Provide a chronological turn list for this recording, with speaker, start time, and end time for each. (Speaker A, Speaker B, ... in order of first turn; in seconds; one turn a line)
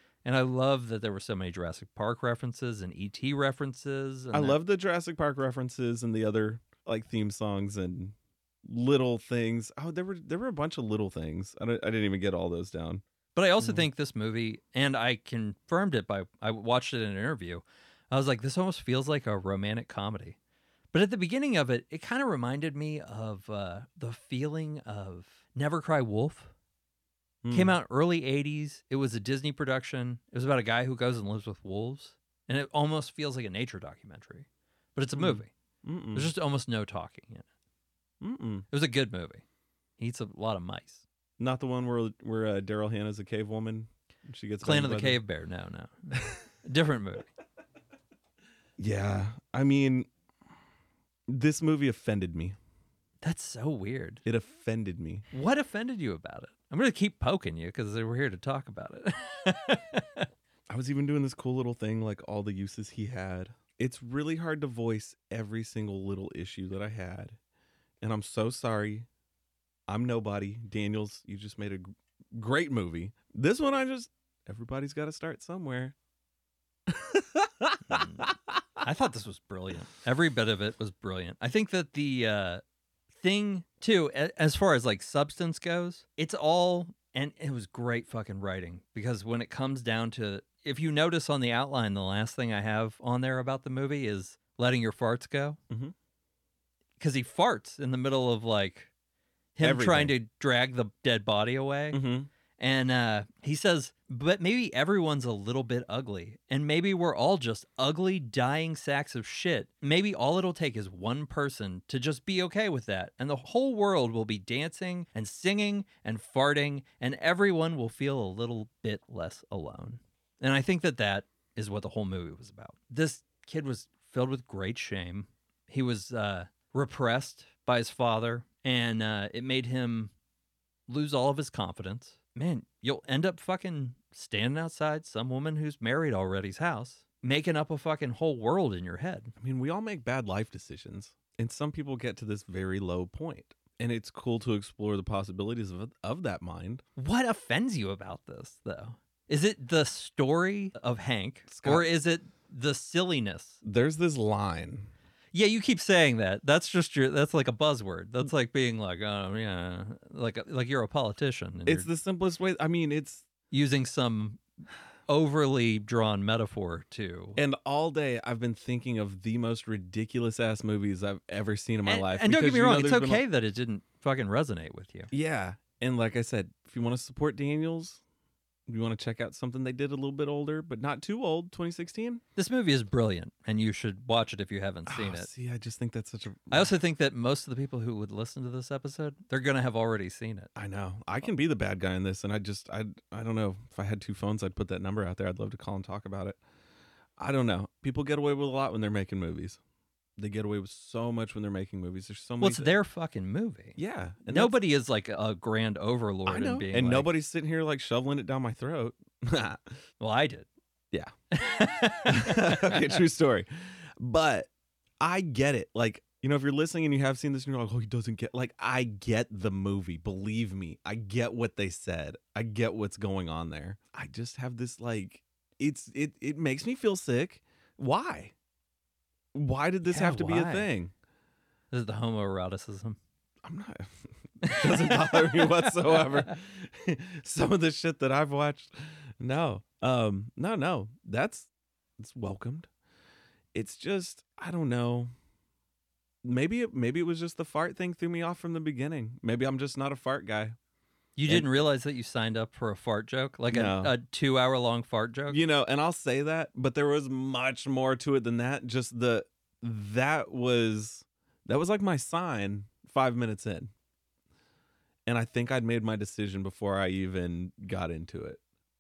Speaker A: 0.2-4.6
Speaker B: 4.3-13.0
Speaker A: 13.3-20.4
Speaker B: 13.6-13.8
Speaker A: 20.9-26.5
Speaker B: 27.4-27.8
Speaker A: 27.5-35.5
Speaker B: 35.2-36.3
Speaker A: 36.1-37.5
Speaker B: 38.2-38.7
Speaker A: 38.7-39.4
Speaker A: 40.0-41.0
Speaker B: 41.4-45.2
Speaker A: 44.6-47.3
Speaker B: 48.8-50.1
Speaker B: 51.3-52.6
Speaker A: 53.2-54.2
Speaker B: 54.2-55.2
Speaker A: 55.3-60.3
Speaker B: 60.7-67.4
Speaker B: 68.0-69.1
Speaker B: 69.9-76.0
Speaker B: 76.9-78.3
Speaker A: 77.9-82.6
Speaker A: 83.2-95.6
Speaker A: 97.0-98.9
Speaker A: 99.6-102.0
Speaker B: 99.6-100.1
Speaker B: 101.9-102.3
Speaker A: 102.6-130.1
Speaker A: 130.9-139.3
Speaker B: 139.4-146.8
Speaker A: 147.0-153.6
Speaker B: 151.5-151.9
Speaker B: 153.6-154.9
Speaker A: 155.3-161.9
Speaker B: 161.7-163.3
Speaker A: 163.5-164.4
Speaker A: 165.1-167.4
Speaker B: 167.4-173.2
Speaker A: 171.9-175.1
Speaker B: 175.1-178.0
Speaker B: 178.7-182.2
Speaker A: 182.4-185.3
Speaker B: 184.9-186.7
Speaker A: 186.5-190.5
Speaker B: 190.6-196.4
Speaker B: 197.2-199.6
Speaker B: 200.2-202.8
Speaker A: 202.4-207.1
Speaker B: 203.8-204.6
Speaker B: 206.3-209.7
Speaker A: 210.0-210.5
Speaker A: 211.3-213.0
Speaker B: 212.1-228.3
Speaker B: 229.3-230.9
Speaker A: 229.9-230.7
Speaker A: 231.7-233.0
Speaker B: 233.4-242.7
Speaker A: 234.4-236.3
Speaker B: 243.5-245.1
Speaker B: 246.2-250.6
Speaker A: 251.2-255.4
Speaker B: 253.5-253.9
Speaker B: 255.3-263.7
Speaker B: 265.1-268.4